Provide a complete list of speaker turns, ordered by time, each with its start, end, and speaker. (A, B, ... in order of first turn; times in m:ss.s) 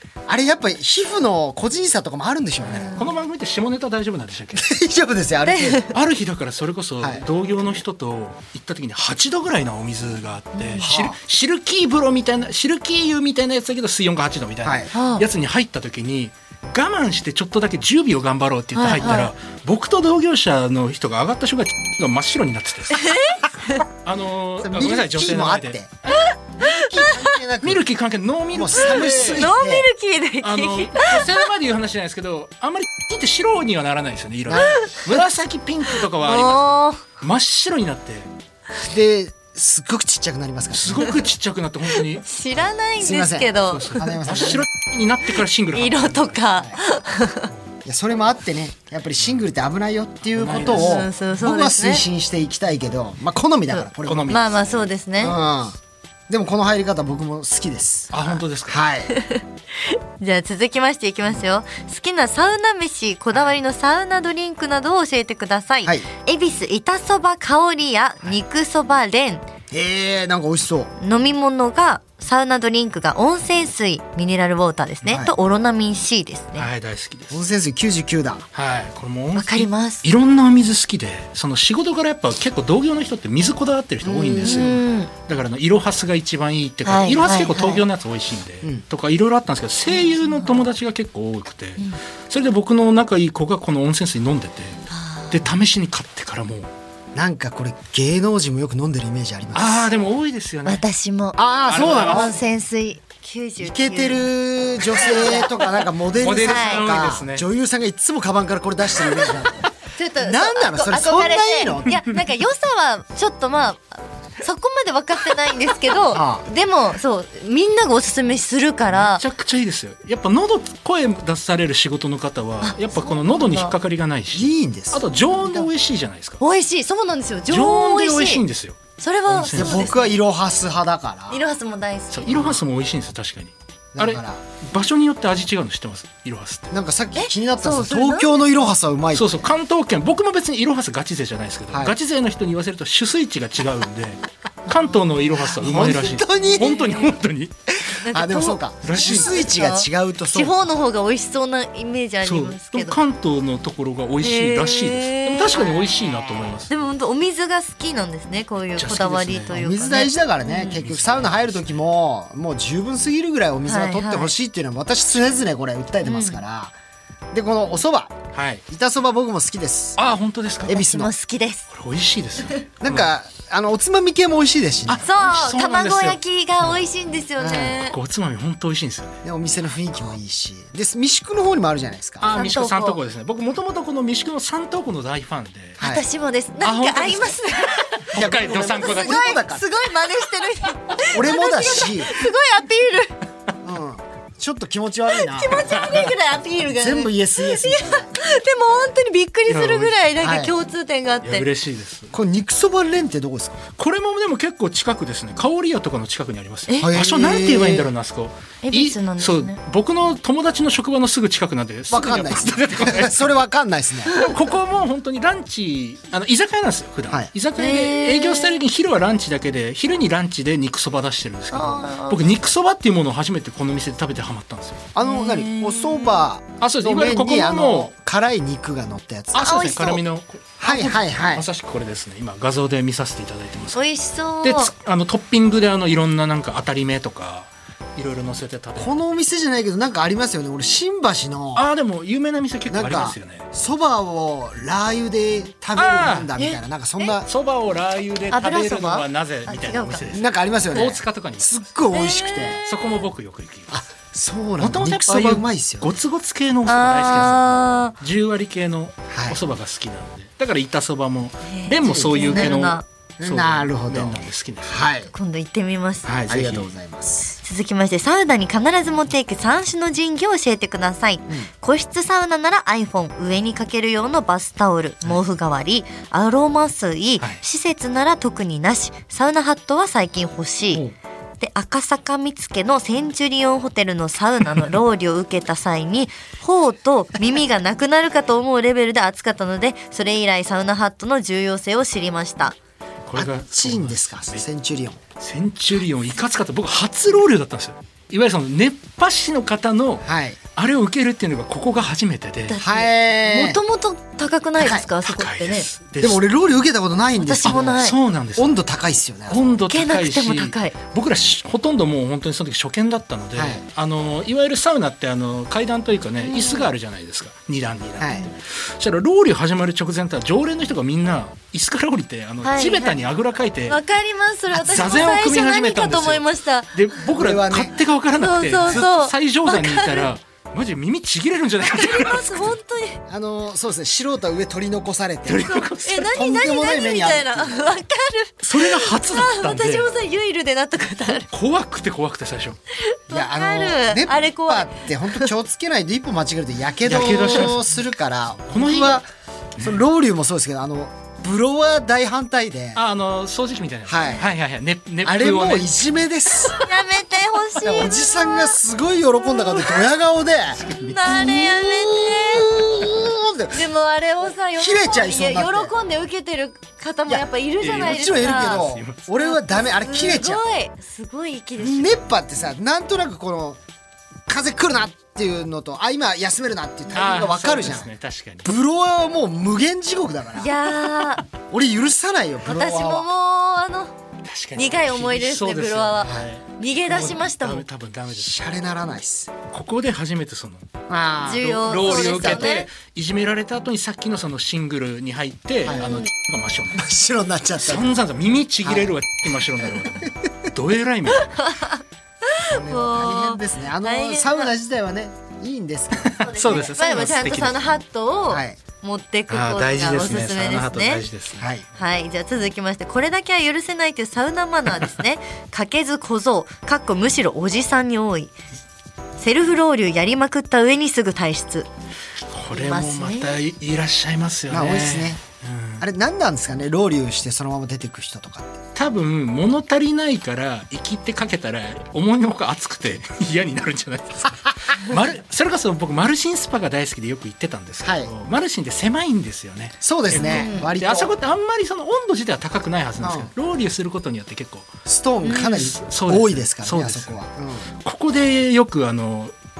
0:00.3-0:02.9 A
0:02.7-0:03.0 B
0:02.9-0:04.7 C
0:04.5-0:05.8 A
0:05.5-0:05.9 B
0:05.9-0:23.1 C
0:10.6-0:10.9 B
0:10.8-0:11.2 A
0:14.6-0:14.9 A
0:14.9-0:15.2 B
0:18.7-0:19.3 B
0:22.9-0:23.8 B
0:24.0-0:25.8 C
0:24.6-0:25.9 A
0:26.2-0:27.3 B
0:26.6-0:27.8 A
0:27.6-0:29.5 C
0:28.5-0:29.9 A
0:28.8-0:31.3 B
0:30.4-0:38.3 C
0:34.5-0:34.8 A
0:34.7-0:35.0 B
0:36.2-0:37.0 B
0:38.8-0:41.1 A
0:40.7-0:42.2 C
0:42.0-0:44.0 B
0:43.0-0:44.6 A
0:43.7-0:46.4 C
0:45.7-0:47.5 B
0:47.8-0:54.3 A
0:50.3-0:51.0 C
0:50.5-0:52.0 B
0:53.7-0:55.4 B
0:54.0-0:54.9 C
0:55.2-0:55.8 A
0:56.3-0:59.1 A
0:58.1-0:58.8 C
0:59.1-1:09.4 B
1:09.7-1:10.9 A
1:11.0-1:16.7 B
1:15.0-1:15.3 A
1:16.6-1:17.4 C
1:17.3-1:18.5 A
1:18.5-1:34.8 C
1:19.4-1:20.1 B
1:24.0-1:24.8 A
1:24.4-1:25.1 B
1:26.8-1:27.8 B
1:29.9-1:30.6 B
1:34.9-1:35.3 B
1:35.3-1:36.7 C
1:37.1-1:39.9 A
1:39.5-1:40.8 C
1:40.6-1:44.3 B
1:41.4-1:42.4 A
1:41.7-1:42.3 C
1:43.6-1:49.7 A
1:44.8-1:45.8 B
1:46.2-1:47.4 C
1:46.4-1:46.8 B
1:49.8-1:59.2 B
1:50.2-1:52.0 A
1:56.1-1:56.4 A
1:58.9-2:06.4 C
2:02.6-2:03.7 B
2:04.3-2:05.6 A
2:06.4-2:08.4 B
2:07.5-2:10.0 C
2:09.0-2:10.1 B
2:09.5-2:11.4 A
2:11.3-2:12.5 B
2:12.1-2:16.7 C
2:12.3-2:12.6 A
2:13.9-2:14.4 A
2:16.7-2:19.4 A
2:17.2-2:18.4 B
2:19.1-2:27.7 C
2:21.7-2:22.0 A
2:24.7-2:25.0 B
2:25.4-2:26.7 A
2:26.6-2:27.1 B
2:27.9-2:30.6 A
2:28.0-2:33.0 B
2:28.8-2:29.5 C
2:32.2-2:36.8 C
2:34.2-2:40.8 B
2:38.8-2:39.5 C
2:39.5-2:46.7 A
2:40.8-2:41.7 C
2:43.6-2:44.3 B
2:46.0-2:46.4 B
2:47.3-2:50.0 A
2:48.3-2:48.6 C
2:50.0-2:50.8 C
2:50.6-2:51.1 A
2:50.7-2:51.6 B
2:51.7-2:53.1 C
2:52.8-2:55.1 A
2:54.9-2:56.2 C
2:54.9-2:58.0 B
2:57.4-2:57.8 A
2:57.7-2:59.2 C
2:59.2-3:02.3 A
3:02.2-3:05.8 C
3:02.3-3:03.0 B
3:05.8-3:08.0 B
3:06.6-3:09.2 C
3:08.1-3:09.6 A
3:08.7-3:13.1 B
3:11.1-3:12.1 A
3:13.6-3:15.6 A
3:15.1-3:21.4 B
3:15.8-3:16.0 C
3:16.7-3:18.1 A
3:19.5-3:20.0 C
3:20.2-3:20.5 A
3:21.2-3:22.1 C
3:22.1-3:23.6 A
3:23.8-3:33.2 C
3:26.8-3:27.9 A
3:28.6-3:29.6 B
3:31.9-3:34.1 A
3:34.2-3:44.9 C
3:37.6-3:38.6 B
3:41.5-3:42.3 B
3:44.9-3:49.8 A
3:45.0-3:46.2 B
3:46.6-3:47.9 C
3:49.3-3:53.8 C
3:49.4-3:50.0 B
3:50.6-3:51.4 A
3:53.7-3:54.7 B
3:54.4-3:59.0 C
3:58.8-4:01.6 A
4:01.5-4:03.4 C
4:02.7-4:07.3 A
4:05.7-4:06.4 C
4:06.4-4:07.1 B
4:07.2-4:11.7 C
4:08.3-4:10.2 B
4:10.1-4:12.6 A
4:11.9-4:12.7 B
4:12.6-4:13.8 C
4:13.7-4:15.9 A
4:14.6-4:24.9 C
4:16.6-4:18.0 B
4:19.1-4:19.4 A
4:21.5-4:22.8 B
4:21.8-4:22.5 A
4:23.2-4:25.1 A
4:25.1-4:26.1 B
4:26.0-4:26.7 C
4:26.3-4:27.4 A
4:27.4-4:40.8 B
4:41.4-4:52.6 B
4:53.0-4:54.4 C
4:53.1-4:55.0 A
4:55.2-5:00.0 C
5:00.0-5:00.4 A
5:00.5-5:02.6 C
5:02.5-5:05.7 B
5:02.6-5:03.6 A
5:04.6-5:04.9 A
5:05.0-5:06.2 C
5:06.0-5:09.4 A
5:07.2-5:07.9 B
5:07.4-5:08.5 C
5:09.3-5:23.8 C
5:09.7-5:10.8 B
5:13.3-5:13.6 A
5:16.2-5:16.7 B
5:18.0-5:18.2 A
5:22.4-5:23.0 B
5:23.7-5:26.8 B
5:24.5-5:32.5 C
5:27.1-5:27.8 A
5:28.2-5:30.1 B
5:31.7-5:33.0 B
5:33.1-5:35.5 A
5:35.3-5:36.2 C
5:35.4-5:41.3 B
5:36.1-5:37.6 A
5:38.4-5:39.9 C
5:41.3-5:42.6 C
5:42.8-5:45.3 B
5:43.1-5:49.0 A
5:46.8-5:47.7 C
5:46.9-5:47.5 B
5:48.5-5:49.0 C
5:49.6-5:49.8 C
5:49.6-5:52.8 A
5:52.8-5:55.8 C
5:53.9-5:54.2 A
5:55.0-5:56.6 A
5:56.6-5:58.5 B
5:57.6-6:03.6 A
6:00.6-6:01.0 C
6:00.9-6:02.7 B
6:03.5-6:12.0 B
6:04.6-6:05.7 A
6:07.1-6:10.4 A
6:07.6-6:09.0 C
6:11.6-6:13.6 A
6:14.3-6:17.9 A
6:16.9-6:18.5 C
6:18.4-6:20.5 A
6:20.4-6:21.2 B
6:21.5-6:23.1 A
6:22.4-6:23.9 B
6:24.2-6:28.4 C
6:24.6-6:27.6 B
6:26.0-6:26.3 A
6:28.2-6:29.3 A
6:29.5-6:30.7 C
6:30.9-6:32.5 A
6:31.2-6:32.7 B
6:31.4-6:36.9 C
6:35.6-6:35.9 A
6:35.7-6:36.1 B
6:36.7-6:37.9 A
6:37.6-6:41.3 C
6:38.6-6:38.9 A
6:39.6-6:40.3 A
6:41.1-6:44.5 B
6:42.4-6:46.7 A
6:46.0-6:47.7 C
6:46.2-6:51.1 B
6:48.3-6:48.6 A
6:49.3-6:51.4 C
6:51.4-6:51.6 A
6:51.7-6:58.4 B
6:59.2-7:01.7 B
7:02.3-7:05.8 C
7:02.5-7:03.4 B
7:04.5-7:05.2 A
7:05.8-7:08.6 A
7:08.8-7:24.7 C
7:17.8-7:18.1 A
7:19.8-7:21.1 A
7:20.2-7:20.7 B
7:23.0-7:23.3 A
7:24.8-7:27.7 A
7:25.2-7:25.6 B
7:25.4-7:27.2 C
7:27.8-7:29.3 C